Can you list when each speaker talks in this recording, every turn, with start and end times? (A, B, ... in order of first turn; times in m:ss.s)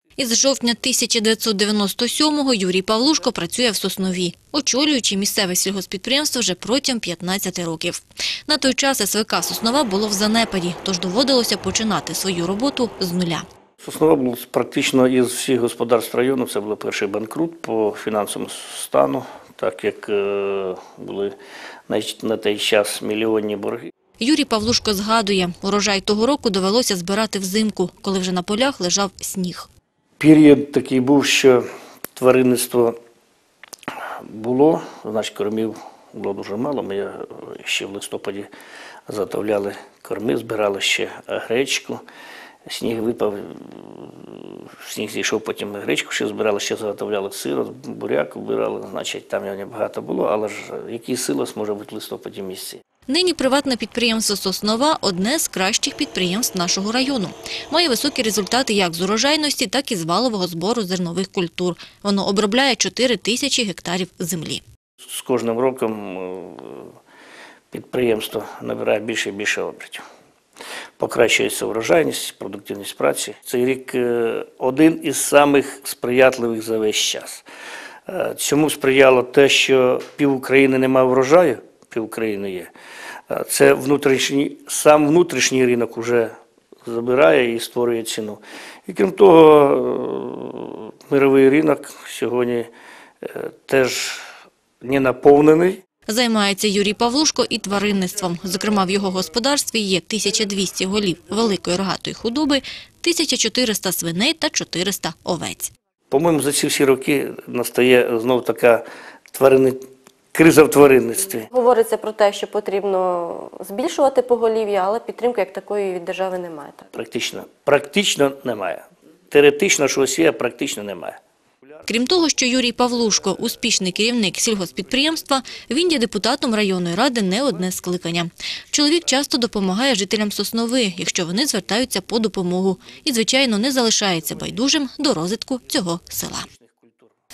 0:00.2-0:13.4 A
0:13.8-0:21.3 B
0:21.9-0:23.9 B
0:24.2-0:29.7 A
0:30.2-0:31.6 B
0:32.2-0:33.0 B
0:34.3-0:38.5 B
0:39.1-0:42.0 B
0:42.7-0:52.8 B
0:53.1-1:04.6 A
1:05.0-1:06.9 B
1:07.7-1:10.0 B
1:11.0-1:17.4 B
1:18.1-1:22.7 B
1:23.3-1:32.7 B
1:33.2-1:34.2 B
1:34.8-1:35.8 B
1:36.1-1:45.7 A
1:46.1-1:51.5 B
1:51.5-1:56.8 C
1:56.9-2:01.2 B
2:01.9-2:16.5 A
2:16.5-2:17.1 B